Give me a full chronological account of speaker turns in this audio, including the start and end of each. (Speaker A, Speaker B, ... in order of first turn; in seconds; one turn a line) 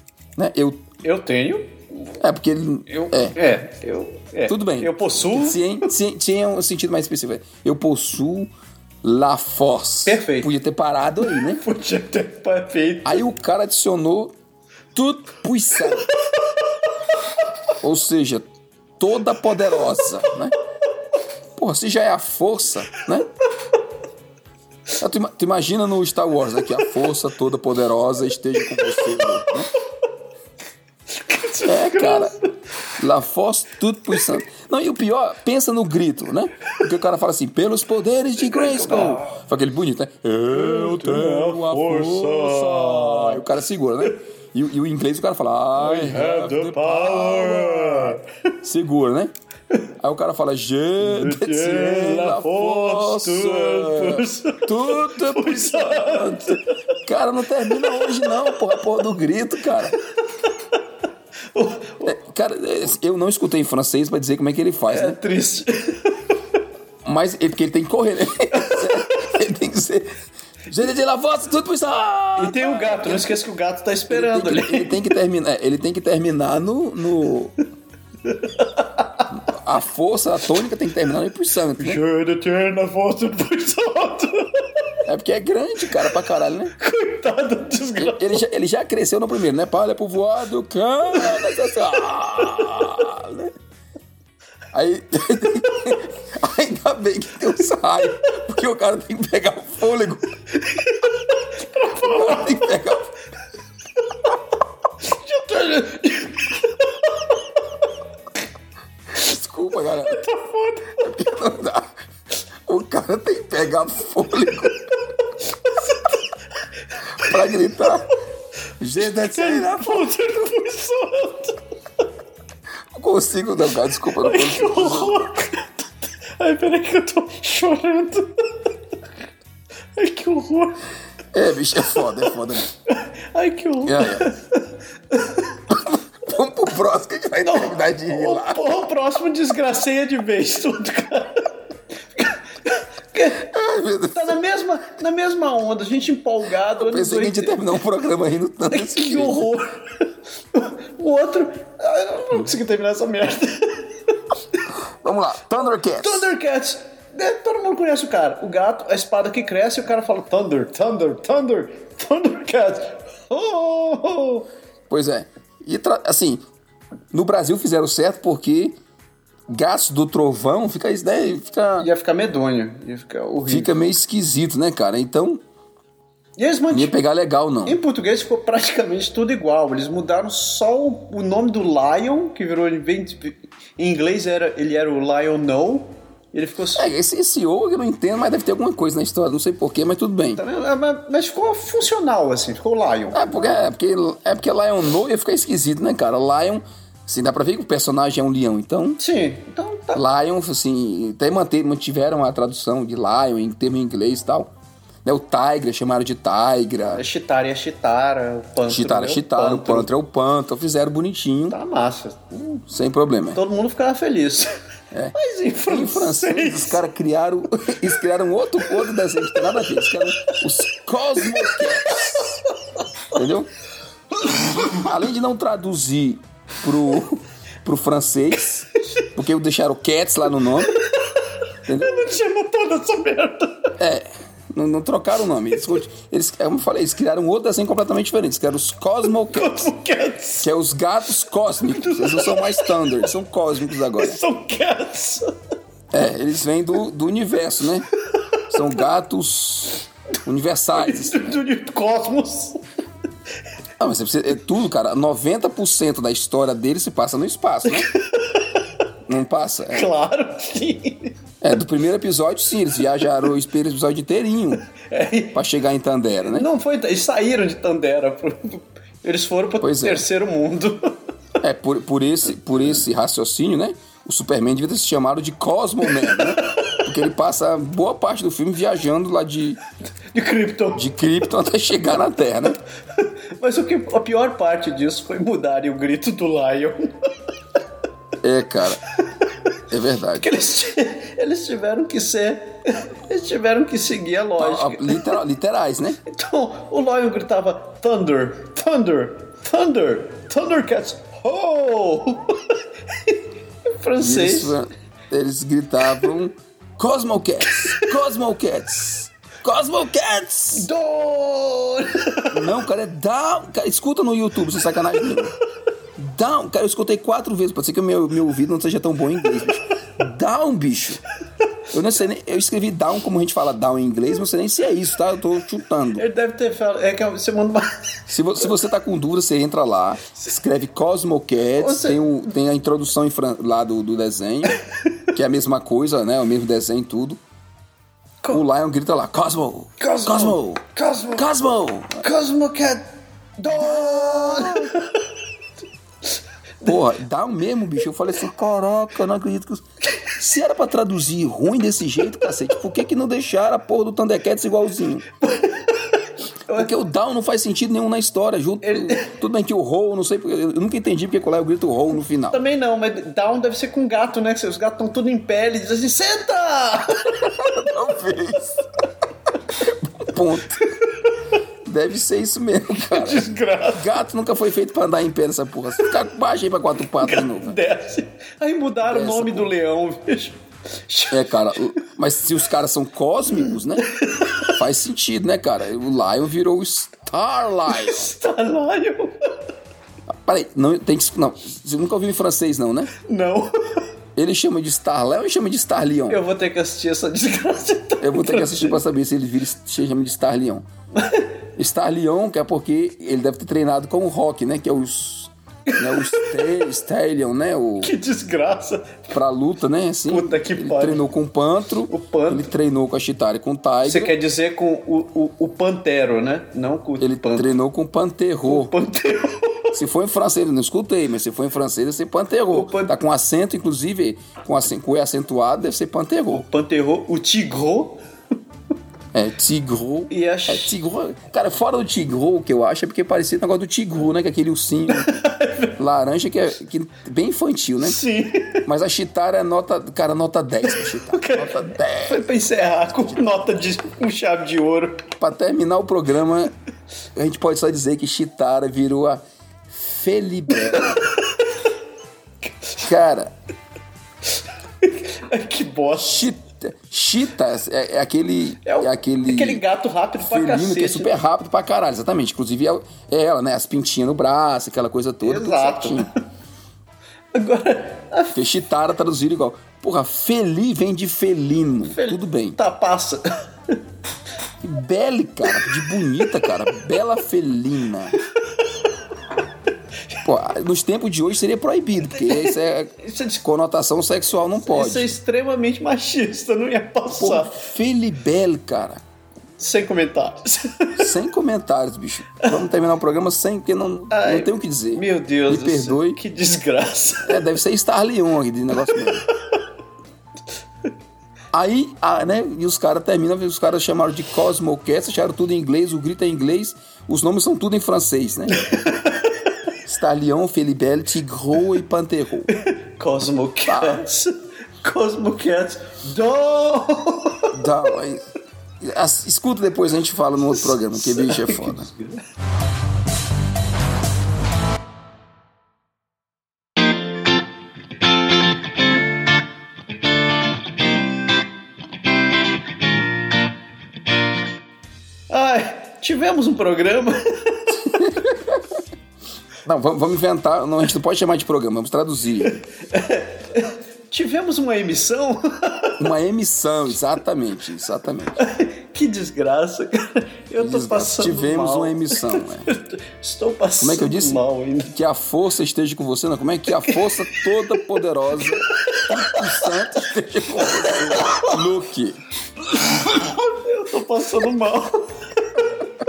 Speaker A: 0.4-0.9
Speaker B: 1.0-2.1
Speaker A: 2.2-3.4
Speaker B: 2.9-5.9
Speaker A: 4.5-11.6
Speaker B: 10.1-10.5
Speaker B: 11.2-13.2
Speaker A: 13.0-14.3
Speaker A: 14.9-16.1
Speaker B: 15.8-16.0
Speaker A: 17.8-18.5
Speaker A: 19.0-20.6
Speaker A: 21.6-23.3
Speaker A: 25.0-29.7
Speaker B: 28.8-29.5
Speaker B: 31.1-32.4
Speaker A: 31.6-32.3
Speaker A: 33.0-49.3
Speaker B: 38.4-39.3
Speaker B: 40.5-43.4
Speaker B: 45.8-48.3
Speaker A: 50.0-60.0
Speaker B: 51.0-56.7
Speaker B: 57.6-58.8
Speaker B: 60.3-60.8
Speaker B: 61.5-62.1
Speaker A: 62.0-65.2
Speaker B: 64.9-66.3
Speaker A: 67.0-70.2
Speaker B: 68.5-69.1
Speaker A: 70.7-73.4
Speaker B: 72.3-75.0
Speaker A: 74.1-77.5
Speaker B: 78.2-79.3
Speaker A: 79.3-82.0
Speaker B: 81.8-84.9
Speaker A: 85.0-86.7
Speaker B: 86.8-88.4
Speaker A: 88.0-93.5
Speaker A: 94.7-100.3
Speaker B: 100.5-102.8
Speaker A: 102.0-103.1
Speaker B: 105.0-107.6
Speaker A: 109.1-110.2
Speaker B: 110.0-111.1
Speaker A: 111.0-111.9
Speaker A: 112.7-114.8
Speaker B: 115.4-116.2
Speaker B: 116.9-118.0
Speaker A: 117.1-118.1
Speaker A: 118.8-120.1
Speaker B: 119.0-121.6
Speaker A: 122.9-125.3
Speaker B: 124.2-128.7
Speaker B: 129.9-130.8
Speaker A: 131.3-132.7
Speaker B: 132.0-132.3
Speaker B: 132.9-135.6
Speaker A: 133.8-134.3
Speaker A: 135.7-138.8
Speaker B: 137.4-141.5
Speaker B: 142.1-143.5
Speaker A: 143.3-144.3
Speaker B: 144.1-147.7
Speaker A: 146.7-149.5
Speaker B: 148.7-154.6
Speaker A: 155.0-156.3
Speaker B: 155.7-164.5
Speaker A: 164.9-166.4
Speaker A: 167.1-168.8
Speaker A: 169.5-171.9
Speaker B: 171.8-173.7
Speaker A: 173.4-175.4
Speaker B: 176.4-176.9
Speaker A: 176.7-177.8
Speaker B: 177.6-186.9
Speaker A: 186.7-190.4
Speaker B: 190.3-193.6
Speaker A: 193.1-199.0
Speaker B: 199.0-200.0
Speaker A: 199.9-204.5
Speaker A: 205.0-207.0
Speaker B: 206.9-209.9
Speaker A: 208.7-211.6
Speaker B: 211.5-212.6
Speaker A: 212.7-213.4
Speaker B: 213.3-214.5
Speaker B: 215.1-216.8
Speaker A: 215.7-222.4
Speaker B: 221.2-222.8
Speaker A: 223.1-223.5
Speaker A: 224.2-230.8
Speaker A: 231.7-232.0
Speaker B: 231.8-233.7
Speaker A: 233.8-239.6
Speaker B: 239.3-240.5
Speaker A: 240.4-244.2
Speaker B: 241.7-242.8
Speaker B: 244.0-245.3
Speaker A: 245.9-247.9
Speaker A: 248.5-251.4
Speaker B: 250.7-252.6
Speaker A: 253.8-257.9
Speaker B: 257.7-258.6
Speaker A: 259.1-259.9
Speaker B: 259.7-261.1
Speaker A: 261.4-264.7
Speaker B: 264.7-265.4
Speaker A: 265.3-266.5
Speaker B: 266.2-271.0
Speaker A: 269.6-270.0
Speaker A: 271.4-279.6
Speaker B: 275.9-276.8
Speaker B: 280.1-280.9
Speaker A: 280.7-282.6
Speaker B: 282.9-287.1
Speaker A: 288.2-288.8
Speaker A: 289.7-290.3
Speaker B: 290.2-295.1
Speaker A: 294.4-296.0
Speaker B: 296.0-304.6
Speaker A: 304.0-310.7
Speaker B: 307.4-307.9
Speaker B: 310.5-312.4
Speaker A: 312.3-315.3
Speaker A: 315.9-321.0
Speaker A: 321.7-326.1
Speaker B: 325.9-328.5
Speaker A: 328.1-334.6
Speaker B: 331.6-332.2
Speaker B: 334.5-335.0
Speaker A: 335.1-337.2
Speaker A: 338.3-342.0
Speaker B: 339.8-341.3
Speaker B: 342.0-345.1
Speaker A: 343.5-344.7
Speaker A: 346.6-355.0
Speaker B: 355.2-356.7
Speaker A: 356.5-362.4
Speaker B: 358.6-359.1
Speaker B: 362.3-367.3
Speaker A: 367.1-368.6
Speaker A: 369.6-370.7
Speaker B: 370.7-371.1
Speaker A: 371.6-377.6
Speaker B: 372.8-373.9
Speaker B: 377.0-381.6
Speaker A: 378.8-379.5
Speaker A: 381.1-383.9
Speaker B: 383.9-384.5
Speaker A: 384.4-388.1
Speaker B: 387.7-389.3
Speaker A: 390.1-392.9
Speaker B: 392.9-393.9
Speaker A: 394.1-396.2
Speaker B: 396.1-398.8
Speaker A: 398.0-400.6
Speaker B: 400.9-401.3
Speaker A: 401.6-407.9
Speaker B: 405.7-406.3
Speaker B: 407.8-409.1
Speaker A: 409.1-414.1
Speaker B: 410.1-411.0
Speaker B: 411.9-412.5
Speaker B: 413.8-417.5
Speaker A: 417.0-418.7
Speaker B: 418.4-419.8
Speaker A: 419.7-426.4
Speaker B: 422.5-423.0
Speaker B: 426.3-428.0
Speaker A: 429.1-435.1
Speaker B: 430.1-430.7
Speaker B: 434.9-435.7
Speaker A: 435.8-438.0
Speaker B: 437.8-438.6
Speaker A: 438.6-442.2
Speaker B: 440.7-445.1
Speaker A: 445.2-446.5
Speaker A: 447.1-451.1
Speaker B: 450.6-451.4
Speaker B: 452.5-452.9
Speaker A: 452.8-453.3
Speaker B: 454.3-456.3
Speaker A: 455.9-459.6
Speaker B: 458.6-461.1
Speaker A: 460.2-466.1
Speaker B: 465.2-466.1
Speaker B: 467.3-468.4
Speaker A: 468.3-472.6
Speaker B: 471.8-473.8
Speaker A: 474.6-478.2
Speaker A: 480.2-485.1
Speaker B: 482.2-483.4
Speaker B: 484.6-487.6
Speaker A: 487.1-489.0
Speaker B: 489.6-491.1
Speaker A: 491.0-496.2
Speaker B: 494.1-497.4
Speaker A: 497.2-499.2
Speaker B: 498.9-499.2
Speaker A: 501.5-508.7
Speaker B: 508.5-509.7
Speaker A: 509.8-512.5
Speaker B: 512.5-517.5
Speaker A: 513.7-514.1
Speaker A: 517.5-518.2
Speaker A: 518.8-521.9
Speaker B: 520.5-522.2
Speaker B: 535.3-537.8
Speaker A: 537.8-538.7
Speaker A: 539.6-542.6
Speaker B: 542.4-546.0
Speaker A: 546.0-548.4
Speaker B: 548.4-554.9
Speaker A: 550.6-552.7
Speaker A: 553.8-562.2
Speaker B: 556.7-557.8
Speaker B: 558.3-559.7
Speaker B: 560.6-561.6
Speaker B: 562.6-565.7